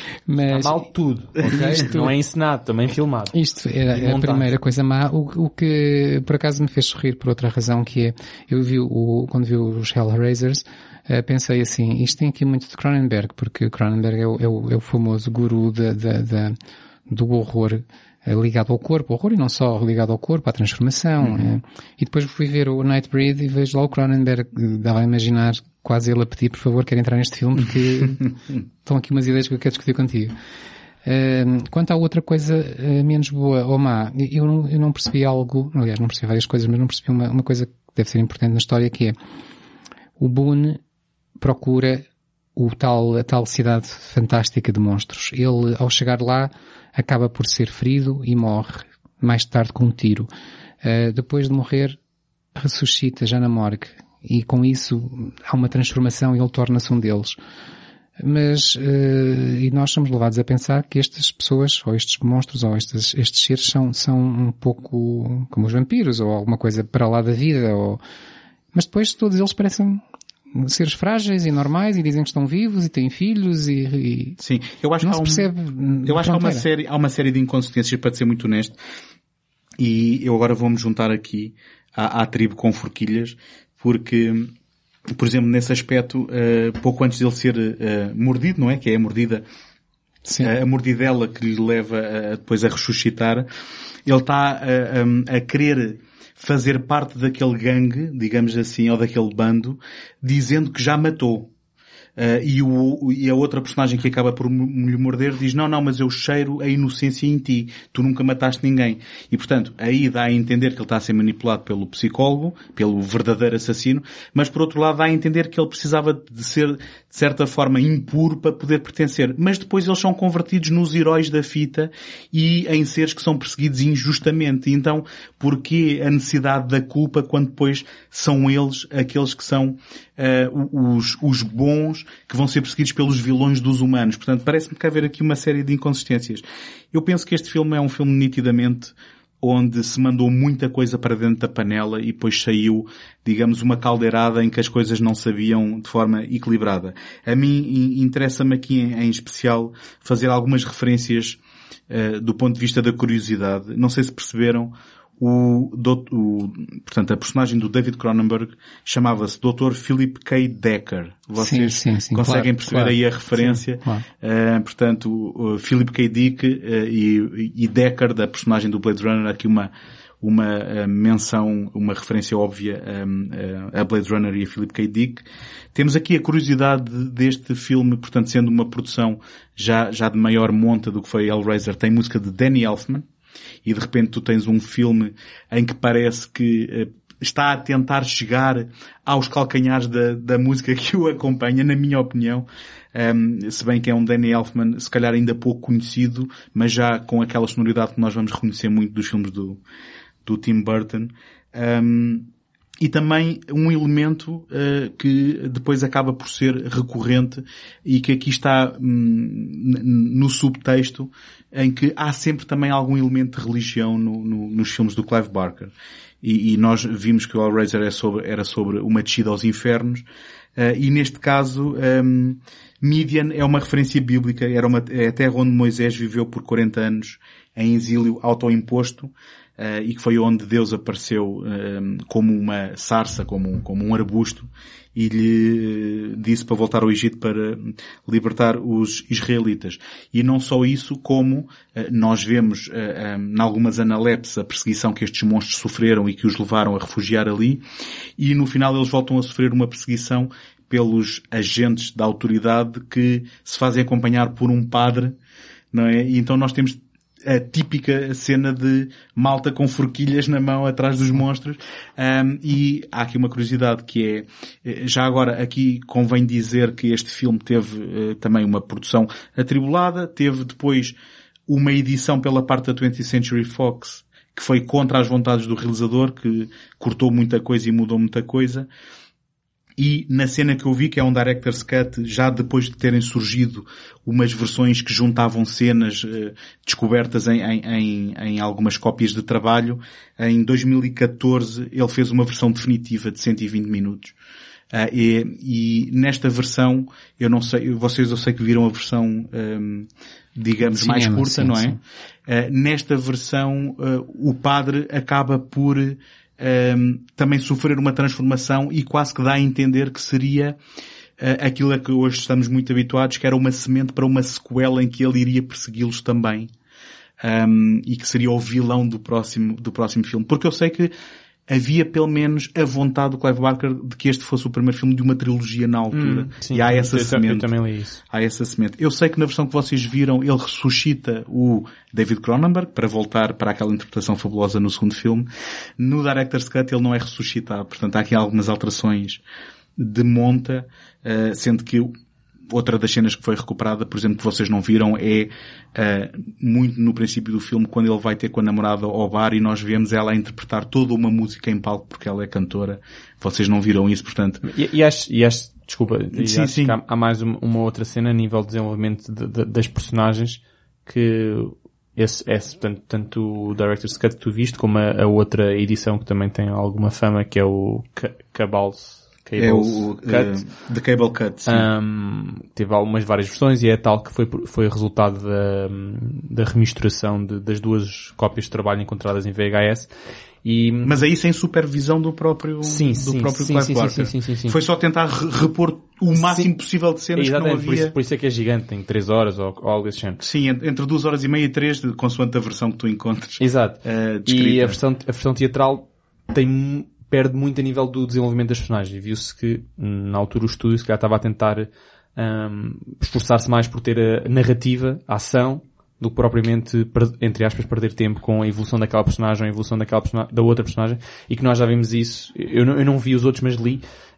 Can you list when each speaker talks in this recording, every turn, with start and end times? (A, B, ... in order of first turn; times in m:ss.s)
0:00.2-0:00.9 A
0:00.5-0:03.3 B
0:01.4-0:02.1 A
0:03.3-0:16.6 A
0:03.9-0:04.5 B
0:17.1-0:30.4 A
0:21.2-0:21.5 C
0:31.0-0:39.2 A
0:40.2-0:40.8 A
0:41.4-0:50.3 A
0:50.8-0:52.0 A
0:52.6-0:57.4 A
0:58.2-1:08.0 A
1:08.7-1:10.0 A
1:10.5-1:14.4 A
1:14.4-1:15.5 C
1:15.0-1:16.6 A
1:16.0-1:18.8 C
1:19.8-1:24.5 C
1:25.1-1:29.4 C
1:30.2-1:30.5 A
1:30.4-1:33.5 C
1:34.0-1:41.5 C
1:42.2-2:31.4 C
2:31.9-3:03.0 C
2:41.4-2:44.0 A
3:03.6-3:19.6 C
3:20.2-3:22.3 C
3:22.8-3:40.0 C
3:40.6-4:07.6 C
4:08.2-4:15.2 C
4:15.7-4:31.0 C
4:31.5-4:38.7 C
4:39.8-4:54.1 C
4:54.7-5:10.6 C
5:00.7-5:01.8 A
5:11.2-5:16.5 C
5:17.2-5:20.9 C
5:21.5-5:27.5 C
5:25.9-5:28.0 B
5:28.1-5:39.2 C
5:39.8-5:41.9 C
5:42.5-5:54.4 C
5:54.4-6:10.4 B
5:56.1-5:56.8 C
6:09.4-6:11.7 C
6:11.5-6:19.9 B
6:20.4-6:20.9 B
6:20.8-6:27.9 C
6:22.6-6:24.6 B
6:26.2-6:26.5 B
6:27.1-6:30.2 B
6:30.2-6:34.8 C
6:33.4-6:53.8 B